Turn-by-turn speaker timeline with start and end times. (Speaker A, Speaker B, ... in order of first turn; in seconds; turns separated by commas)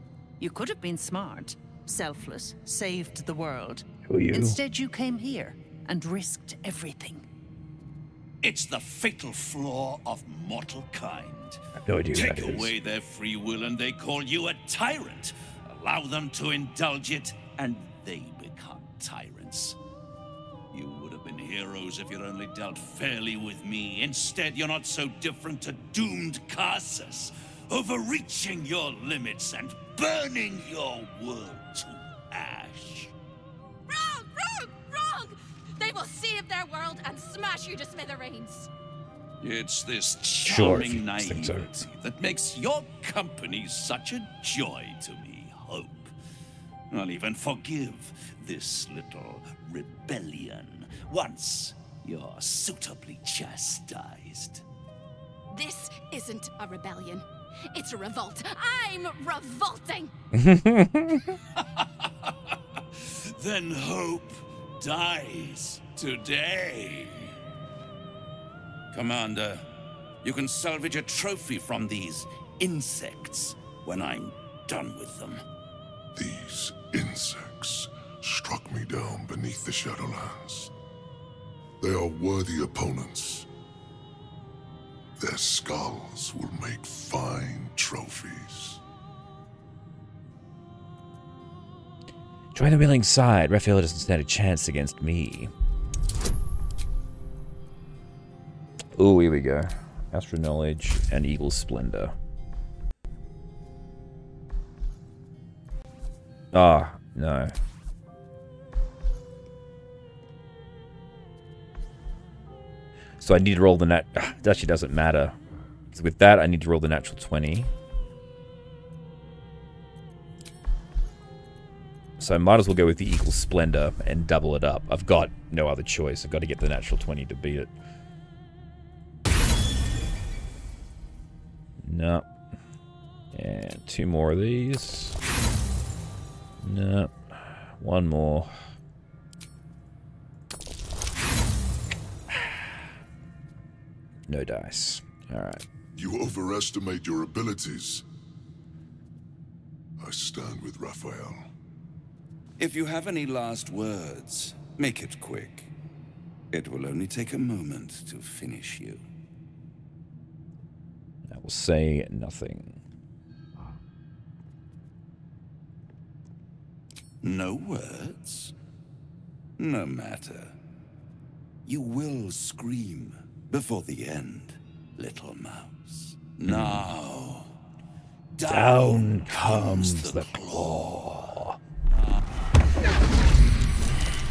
Speaker A: 0.4-7.2, Speaker B: 4.1-4.6, Speaker C: 8.4-11.6, Speaker B: 11.8-12.7, Speaker C: 12.1-19.8, Speaker C: 20.7-33.1, Speaker D: 33.9-38.7, Speaker C: 39.4-46.1, Speaker B: 40.4-41.8, Speaker C: 46.9-54.6, Speaker D: 55.5-60.1, Speaker B: 60.3-61.3, Speaker C: 61.6-62.3, Speaker C: 63.0-67.3, Speaker C: 68.9-69.7, Speaker C: 70.2-75.4, Speaker E: 76.2-80.7, Speaker E: 81.8-83.5, Speaker E: 85.2-88.8, Speaker B: 92.5-95.5, Speaker B: 99.0-102.1, Speaker B: 106.5-107.5, Speaker B: 113.2-115.3, Speaker B: 115.9-117.7, Speaker B: 122.2-127.7, Speaker B: 131.8-132.3, Speaker B: 133.3-135.2, Speaker B: 136.6-138.5, Speaker B: 144.3-145.6, Speaker E: 145.9-148.1, Speaker E: 150.0-151.5, Speaker C: 152.6-155.7, Speaker C: 156.5-159.0, Speaker B: 161.3-162.8, Speaker C: 167.2-168.5, Speaker C: 169.6-170.6, Speaker C: 171.7-177.5, Speaker B: 176.5-176.8, Speaker C: 178.3-181.1, Speaker B: 178.4-181.6